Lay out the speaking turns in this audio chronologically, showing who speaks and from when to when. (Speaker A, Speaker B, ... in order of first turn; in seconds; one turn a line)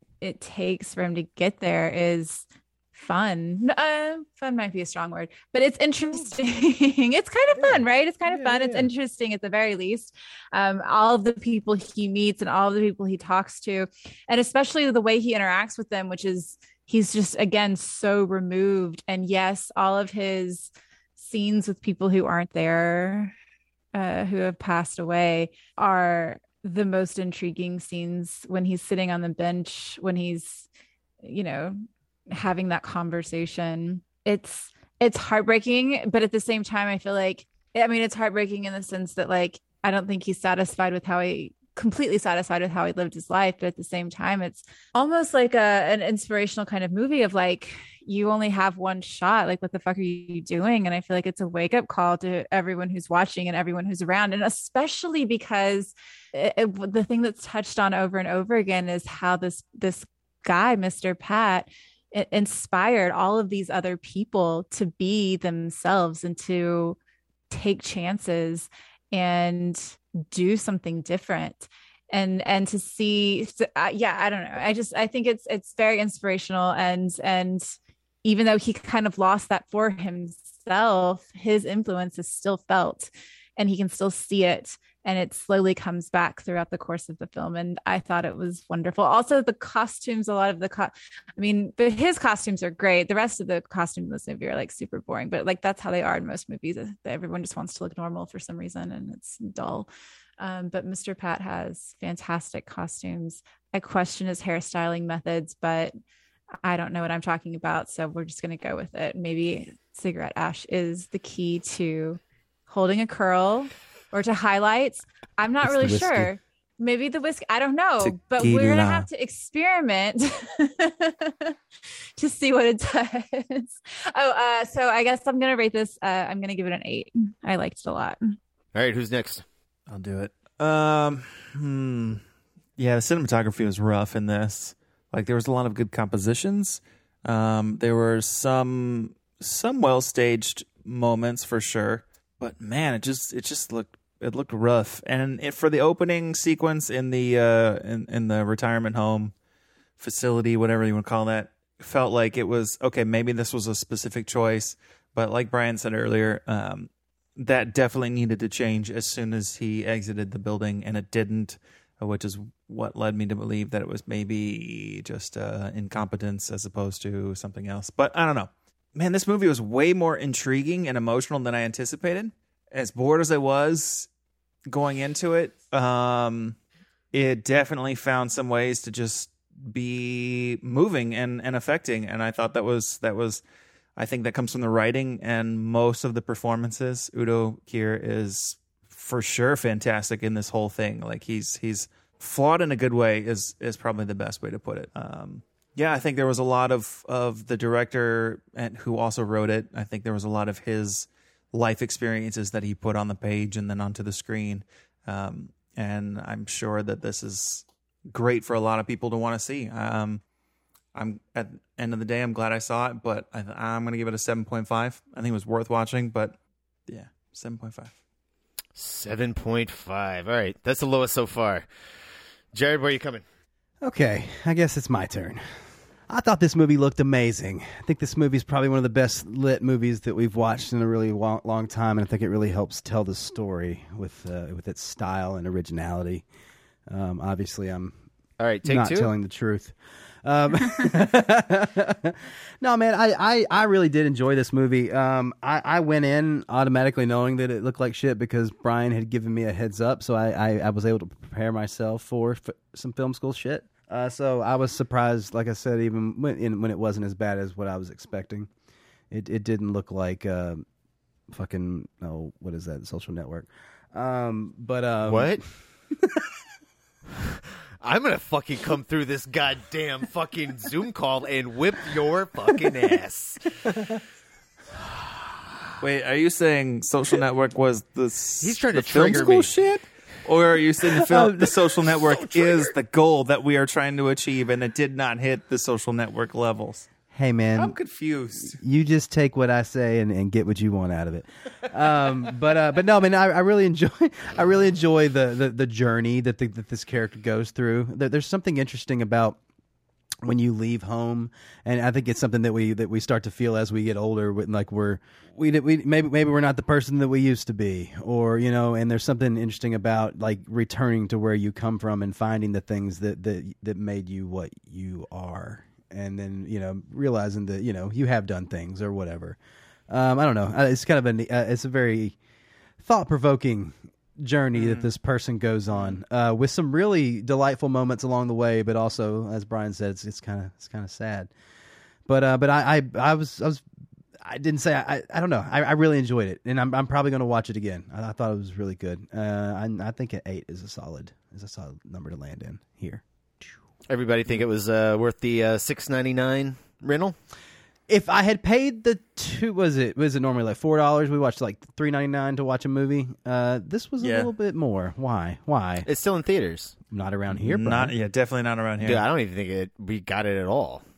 Speaker A: 0.2-23.3
Speaker B: 7.6-8.9
Speaker A: 23.9-30.7
Speaker A: 31.2-31.8
Speaker A: 32.3-67.0
Speaker A: 67.5-77.7
Speaker A: 78.2-106.0
Speaker A: 106.6-121.6
Speaker B: 115.6-116.3
Speaker C: 118.0-119.1
Speaker A: 122.2-128.4
Speaker D: 128.7-129.4
Speaker C: 129.9-132.2
Speaker C: 132.8-149.3
Speaker C: 150.0-174.1
Speaker C: 174.7-176.6
Speaker C: 177.1-183.4
Speaker C: 184.0-210.2
Speaker C: 210.9-217.9
Speaker D: 218.8-221.7
Speaker D: 222.5-223.2
Speaker B: 223.8-225.4
Speaker B: 226.1-236.2
Speaker B: 236.9-237.9
Speaker D: 238.4-239.1
Speaker B: 238.6-258.5
Speaker B: 259.1-260.6
Speaker B: 261.3-265.4
Speaker D: 265.1-265.4
Speaker D: 267.2-273.4
Speaker C: 275.8-286.9
Speaker D: 278.4-279.5
Speaker B: 281.0-281.5
Speaker B: 287.1-287.8
Speaker C: 287.6-288.6
Speaker B: 288.4-299.4
Speaker B: 300.2-319.4
Speaker B: 319.9-322.2
Speaker B: 322.8-331.3
Speaker C: 324.6-324.9
Speaker B: 332.1-333.6
Speaker B: 334.2-343.5
Speaker D: 343.9-347.2
Speaker B: 347.9-355.9
Speaker C: 354.0-354.3
Speaker D: 355.9-356.8
Speaker B: 356.9-357.9
Speaker C: 357.3-359.0
Speaker D: 358.8-360.8